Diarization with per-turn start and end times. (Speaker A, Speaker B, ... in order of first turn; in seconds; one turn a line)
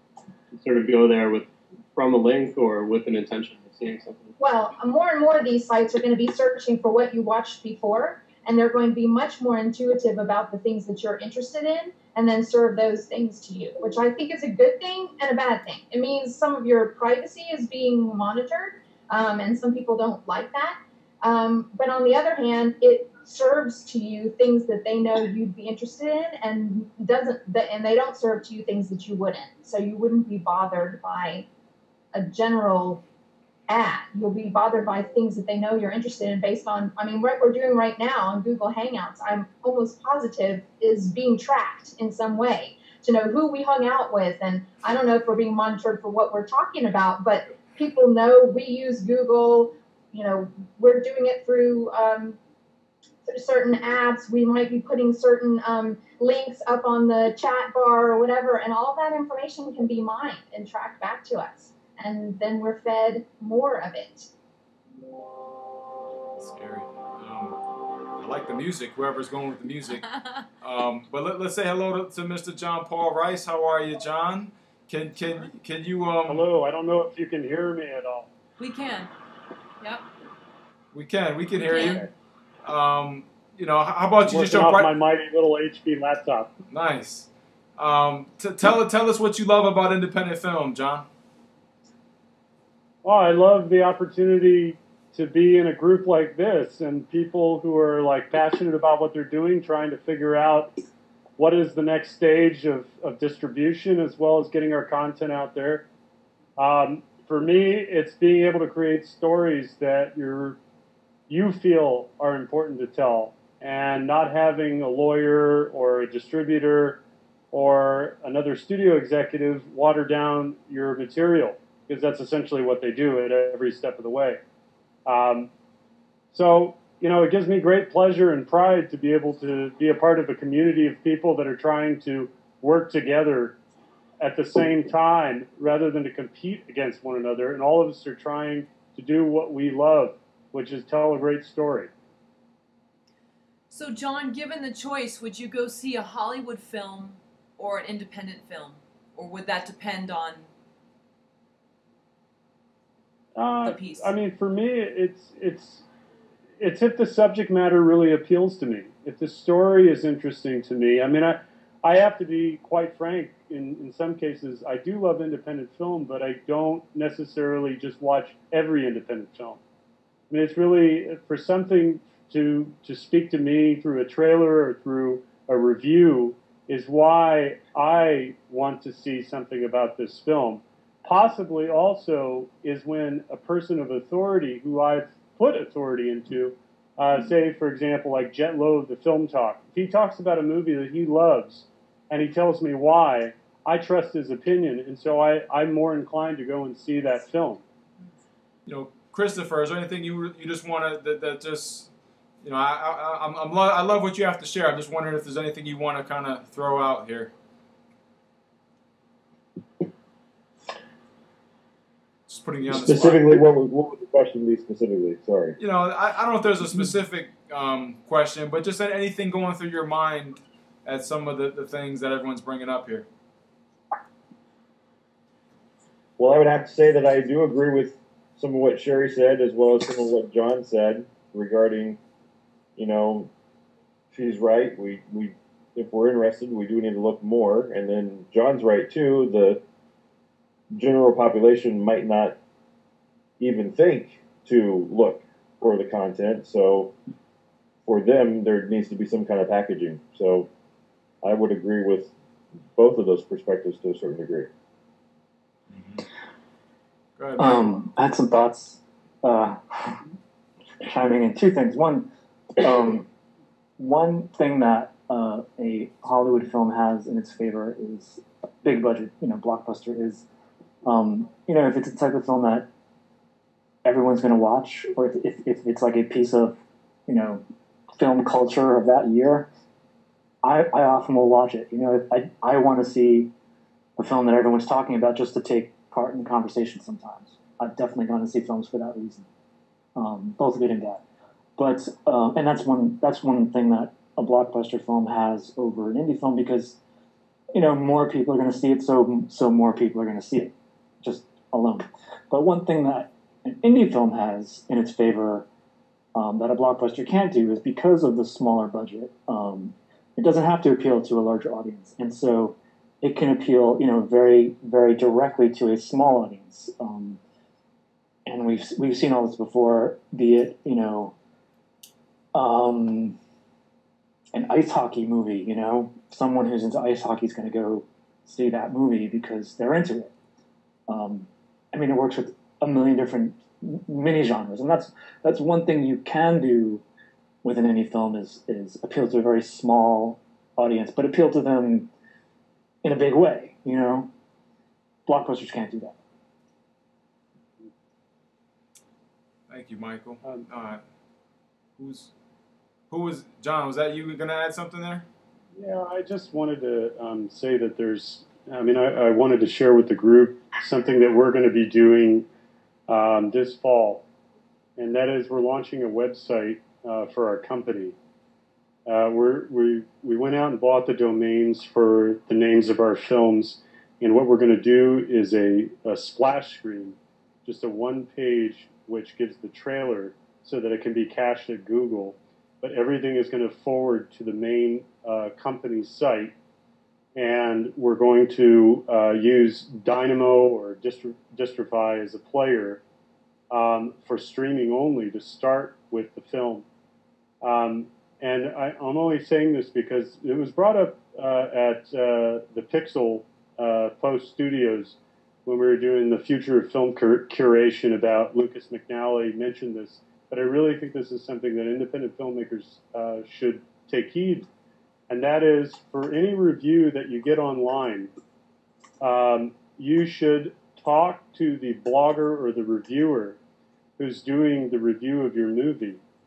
Speaker A: 0.5-4.3
Speaker B: 4.4-31.5
Speaker B: 32.1-33.0
Speaker B: 33.7-52.4
Speaker B: 53.3-64.3
Speaker C: 66.4-67.6
Speaker C: 68.1-70.1
Speaker C: 70.6-76.4
Speaker D: 76.3-78.3
Speaker E: 78.6-79.1
Speaker E: 79.8-80.0
Speaker C: 80.9-82.1
Speaker E: 81.6-82.0
Speaker C: 82.6-84.9
Speaker D: 84.2-86.5
Speaker C: 86.7-91.0
Speaker D: 93.0-100.7
Speaker D: 101.4-105.8
Speaker D: 106.6-110.6
Speaker D: 111.3-117.0
Speaker D: 117.5-124.4
Speaker D: 125.0-125.5
Speaker D: 126.3-133.6
Speaker D: 134.2-141.9
Speaker E: 143.7-150.5
Speaker D: 153.3-155.8
Speaker E: 153.6-154.1
Speaker D: 156.6-169.6
Speaker D: 170.3-197.6
Speaker C: 198.7-201.9
Speaker C: 202.4-207.3
Speaker C: 212.3-213.4
Speaker F: 212.7-215.6
Speaker C: 215.6-223.1
Speaker F: 226.2-232.0
Speaker F: 232.8-233.3
Speaker F: 234.1-239.6
Speaker F: 240.7-242.4
Speaker F: 243.4-246.9
Speaker F: 247.8-250.5
Speaker F: 251.2-252.1
Speaker F: 252.8-254.5
Speaker C: 255.7-256.0
Speaker C: 257.2-257.8
Speaker G: 257.4-260.0
Speaker G: 260.8-262.1
Speaker G: 262.6-263.1
Speaker G: 263.8-270.2
Speaker G: 270.8-272.6
Speaker G: 273.8-277.4
Speaker G: 278.0-279.5
Speaker G: 280.4-283.3
Speaker G: 284.0-289.2
Speaker G: 289.9-291.0
Speaker G: 291.6-296.8
Speaker G: 297.5-305.4
Speaker G: 306.1-317.2
Speaker G: 318.2-321.1
Speaker G: 322.3-323.2
Speaker G: 324.3-330.1
Speaker G: 330.9-336.8
Speaker G: 337.4-341.9
Speaker G: 342.8-344.1
Speaker G: 345.1-345.9
Speaker C: 349.5-350.8
Speaker C: 351.8-352.1
Speaker C: 352.9-355.0
Speaker D: 355.5-362.2
Speaker D: 362.9-364.0
Speaker D: 364.8-367.9
Speaker D: 368.9-386.3
Speaker D: 387.1-392.8
Speaker D: 393.5-396.6
Speaker D: 397.4-414.5
Speaker D: 415.1-418.1
Speaker D: 419.0-423.4
Speaker D: 424.0-426.0